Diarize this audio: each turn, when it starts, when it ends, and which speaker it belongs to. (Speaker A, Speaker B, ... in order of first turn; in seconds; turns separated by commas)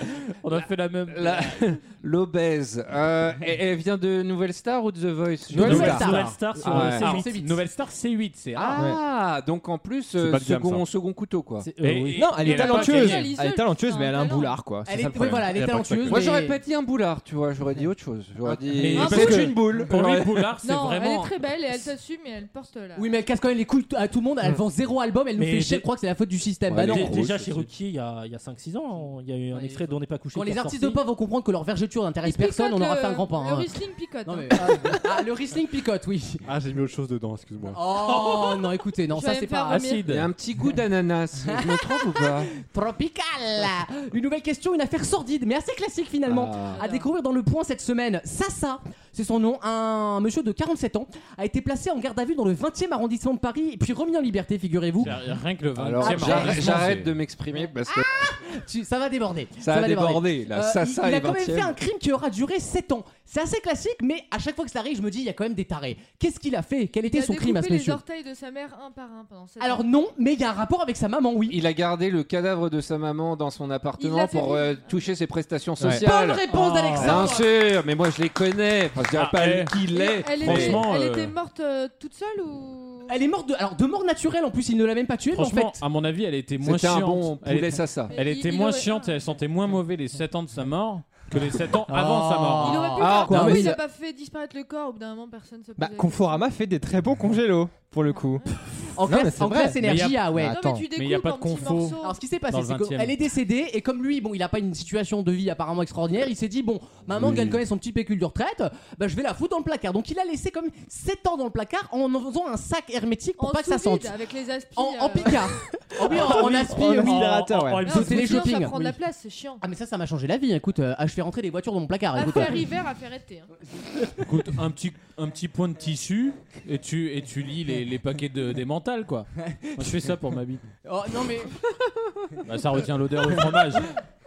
Speaker A: 0.4-1.6, Speaker B: 1.1-6.1, Speaker C: 5.5-6.1, Speaker D: 5.6-7.6, Speaker A: 5.6-8.8, Speaker E: 5.7-7.3, Speaker B: 6.7-7.2, Speaker D: 8.6-8.8, Speaker B: 8.6-11.7, Speaker F: 10.1-10.8, Speaker E: 11.6-12.6, Speaker A: 11.8-13.2, Speaker C: 12.1-15.1, Speaker G: 12.4-14.6, Speaker D: 14.8-16.6, Speaker B: 14.9-15.5, Speaker F: 15.3-16.3, Speaker B: 16.0-20.6, Speaker A: 18.7-21.3, Speaker G: 18.9-19.5, Speaker G: 20.6-23.1, Speaker D: 22.9-27.2, Speaker E: 25.4-25.9, Speaker B: 26.7-27.6, Speaker E: 26.8-31.0, Speaker D: 29.5-36.4, Speaker G: 32.2-35.0, Speaker F: 36.5-37.8, Speaker D: 37.7-39.9, Speaker G: 39.1-40.1, Speaker A: 39.7-40.3, Speaker B: 40.0-42.5, Speaker D: 41.4-55.1, Speaker B: 46.2-46.8, Speaker G: 46.7-47.1, Speaker A: 55.0-57.1, Speaker B: 55.8-58.3, Speaker D: 56.0-56.7, Speaker D: 58.2-68.0, Speaker B: 59.6-61.8, Speaker G: 67.0-69.8, Speaker D: 69.6-71.6, Speaker B: 71.5-80.8, Speaker G: 74.0-74.9, Speaker C: 75.8-76.0, Speaker D: 75.8-77.5, Speaker E: 76.5-77.2, Speaker A: 79.1-81.3, Speaker G: 79.9-83.2, Speaker D: 83.1-85.8, Speaker A: 85.3-93.0, Speaker B: 86.6-88.1, Speaker G: 88.1-89.1, Speaker D: 91.9-93.7, Speaker G: 92.6-96.4, Speaker B: 93.0-93.4, Speaker C: 93.3-93.8, Speaker C: 95.8-100.8, Speaker G: 98.1-98.5, Speaker D: 98.9-100.5, Speaker A: 99.8-100.4, Speaker G: 100.5-102.2, Speaker A: 100.9-103.1, Speaker D: 102.0-114.1, Speaker G: 113.4-115.5, Speaker D: 114.8-118.8, Speaker C: 116.0-118.1, Speaker E: 116.1-118.8, Speaker G: 117.8-119.6, Speaker D: 119.6-122.7, Speaker G: 122.1-123.5, Speaker A: 124.2-130.7, Speaker D: 129.5-130.0, Speaker D: 130.8-131.6, Speaker A: 132.4-133.9